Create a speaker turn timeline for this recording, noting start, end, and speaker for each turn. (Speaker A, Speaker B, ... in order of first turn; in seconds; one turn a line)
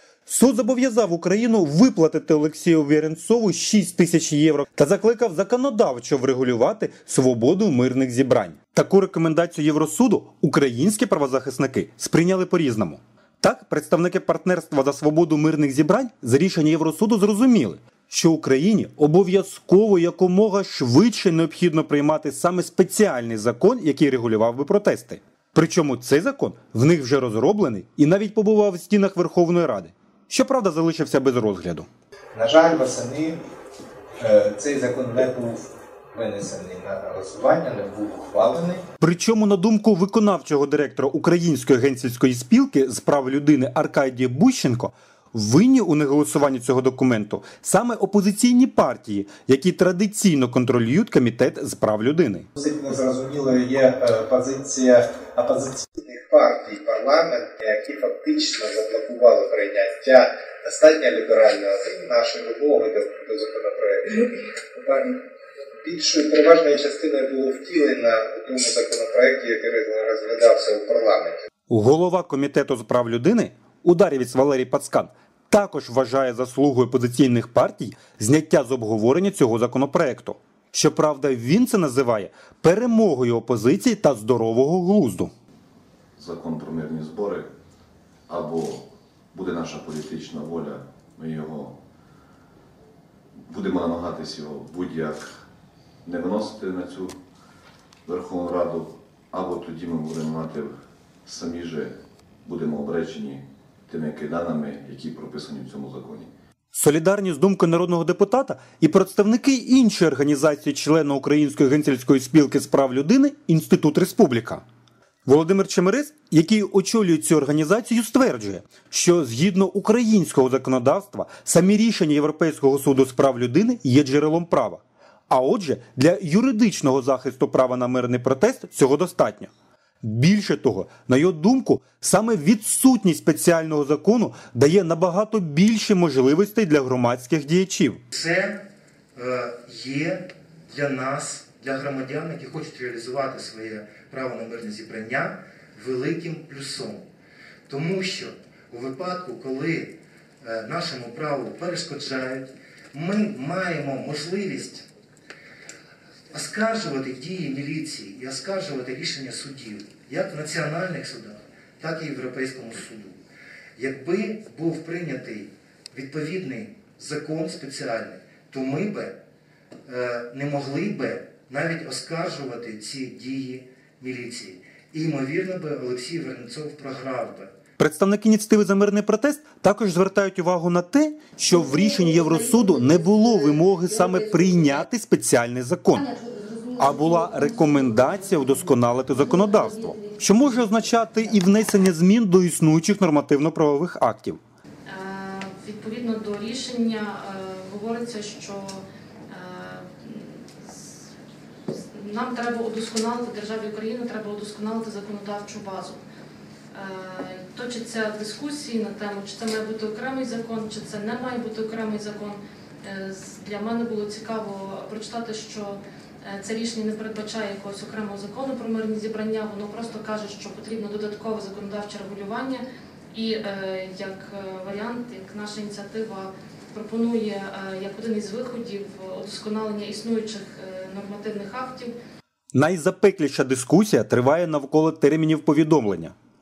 Speaker A: 0.3-31.9
Speaker B: 32.3-33.4
Speaker B: 34.2-38.8
Speaker A: 39.0-52.5
Speaker B: 52.6-65.2
Speaker B: 65.8-71.4
Speaker A: 71.7-85.3
Speaker C: 86.2-87.4
Speaker C: 88.3-88.8
Speaker C: 89.3-91.7
Speaker C: 93.5-95.2
Speaker C: 96.0-97.1
Speaker C: 98.0-100.7
Speaker C: 101.2-101.9
Speaker C: 102.5-106.3
Speaker A: 106.7-114.6
Speaker A: 115.2-129.5
Speaker A: 130.0-138.0
Speaker D: 138.1-138.6
Speaker D: 139.1-147.0
Speaker D: 147.7-154.8
Speaker D: 156.3-163.2
Speaker D: 163.8-169.1
Speaker D: 169.9-177.5
Speaker A: 177.8-186.2
Speaker A: 186.7-194.4
Speaker E: 194.9-201.1
Speaker E: 201.7-206.0
Speaker E: 206.7-231.9
Speaker A: 232.5-236.1